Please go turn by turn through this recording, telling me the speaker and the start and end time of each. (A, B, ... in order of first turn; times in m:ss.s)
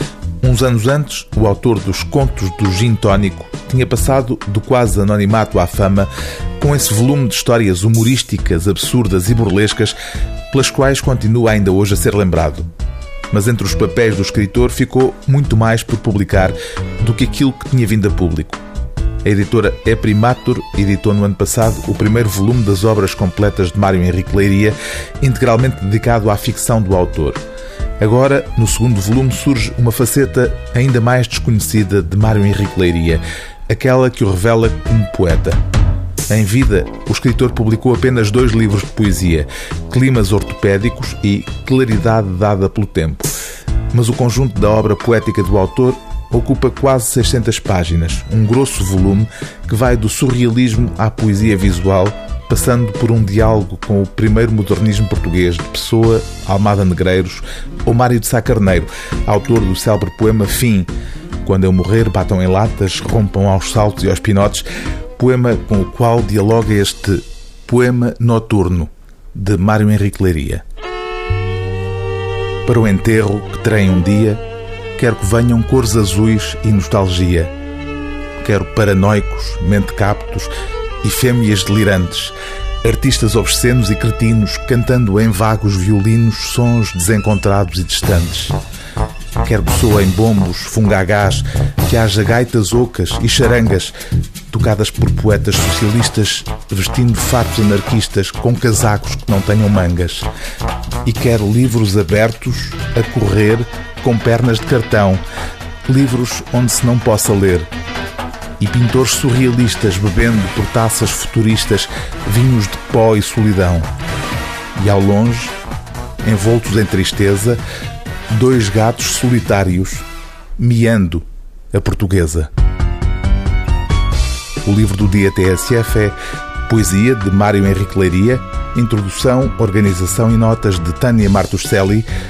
0:00.4-0:10.0 A
0:10.5-0:12.7 A
0:13.3-0:18.6 A
0:19.2-0:27.4 A
0:28.0-0:35.6 A
0:36.3-0:43.3 A
0:43.9-1:00.9 A
1:01.4-1:10.6 A
1:12.6-1:14.4 A
1:15.0-1:17.5 A
1:18.4-1:28.6 A
1:29.4-1:33.9 A
1:34.5-1:40.3 A
1:41.0-1:45.2 A
1:45.9-1:47.7 A
1:48.6-1:53.9 A
1:54.7-1:55.5 A
1:56.2-1:57.6 A
1:58.3-2:00.0 A
2:00.6-2:02.5 A
2:04.6-2:12.1 A